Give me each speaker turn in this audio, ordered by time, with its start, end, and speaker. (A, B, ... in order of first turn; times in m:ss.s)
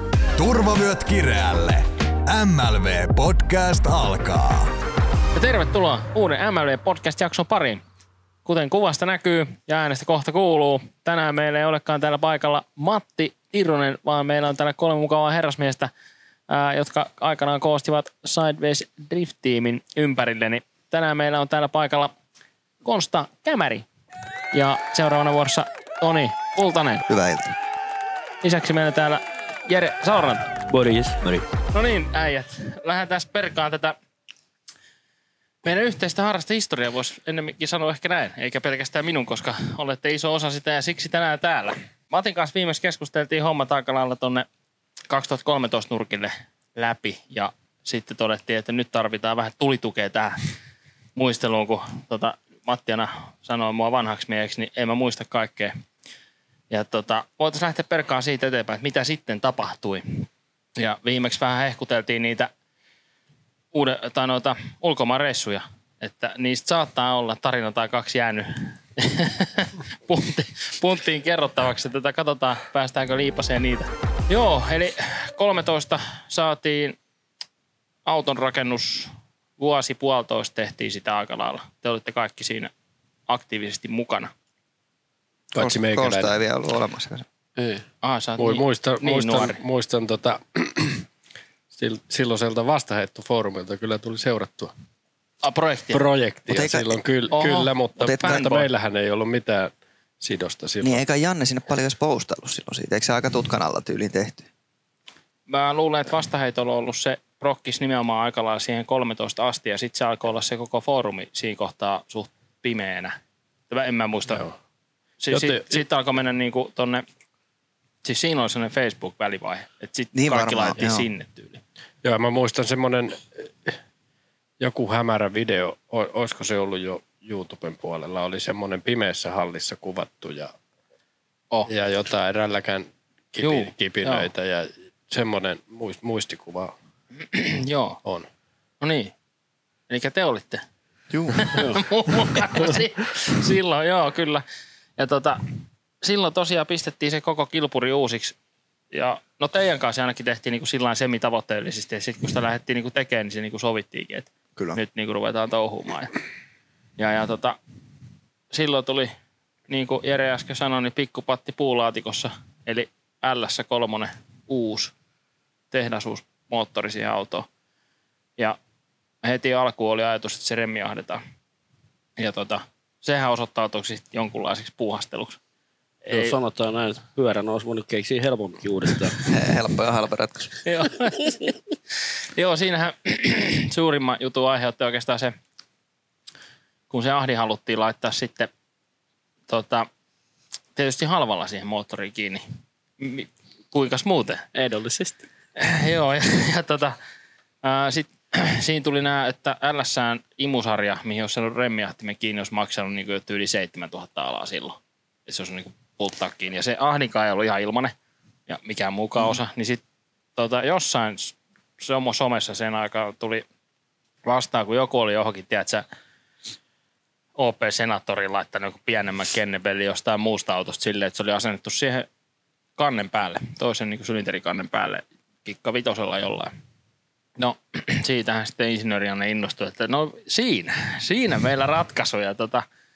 0:00.4-0:04.7 A
0:05.3-0:07.8 B
0:08.4-0:15.9 B
0:16.5-0:22.1 B
0:22.8-0:23.8 B
0:24.5-0:27.0 B
0:27.1-0:27.5 C
0:28.4-0:30.6 B
0:30.7-0:31.4 D
0:31.7-0:34.0 B
0:35.6-0:44.5 B
0:45.1-0:50.4 B
0:51.1-0:55.7 B
0:56.7-1:00.2 B
1:00.8-1:02.5 B
1:03.7-1:17.0 B
1:18.0-1:22.7 B
1:23.3-1:24.3 B
1:25.5-1:26.4 E
1:25.6-1:27.2 C
1:28.0-1:29.6 B
1:28.4-1:31.0 E
1:31.7-1:34.7 E
1:35.4-1:36.0 B
1:35.9-1:41.0 E
1:36.5-1:36.9 C
1:37.3-1:38.7 B
1:38.0-1:38.5 C
1:40.8-1:44.5 C
1:45.5-1:53.2 B
1:53.7-1:54.4 B
1:55.2-1:57.0 B
1:55.3-1:55.8 E
1:58.0-2:01.6 B
2:00.1-2:01.1 C
2:02.0-2:03.8 E
2:04.6-2:10.5 E
2:11.7-2:16.7 E
2:13.4-2:14.3 B
2:17.2-2:18.0 B
2:18.8-2:19.1 B
2:19.9-2:20.6 B
2:21.1-2:21.4 C
2:21.4-2:24.4 B
2:25.0-2:28.4 B
2:28.9-2:36.1 B
2:37.0-2:37.6 B
2:38.5-2:39.1 B
2:39.7-2:44.9 B
2:45.7-2:47.5 B
2:49.2-2:51.2 B
2:52.2-2:55.4 B
2:56.0-2:56.3 B
2:56.1-2:59.2 D
2:59.3-3:00.5 C
3:00.6-3:05.3 B
3:06.9-3:08.5 B
3:09.5-3:09.9 B
3:10.7-3:12.4 B
3:13.0-3:14.5 B
3:14.5-3:15.2 D
3:15.6-3:17.0 B
3:17.6-3:27.9 B
3:28.5-3:29.8 B
3:30.4-3:33.4 B
3:34.2-3:35.8 B
3:37.4-3:42.1 B
3:42.8-3:46.5 B
3:47.4-3:52.6 B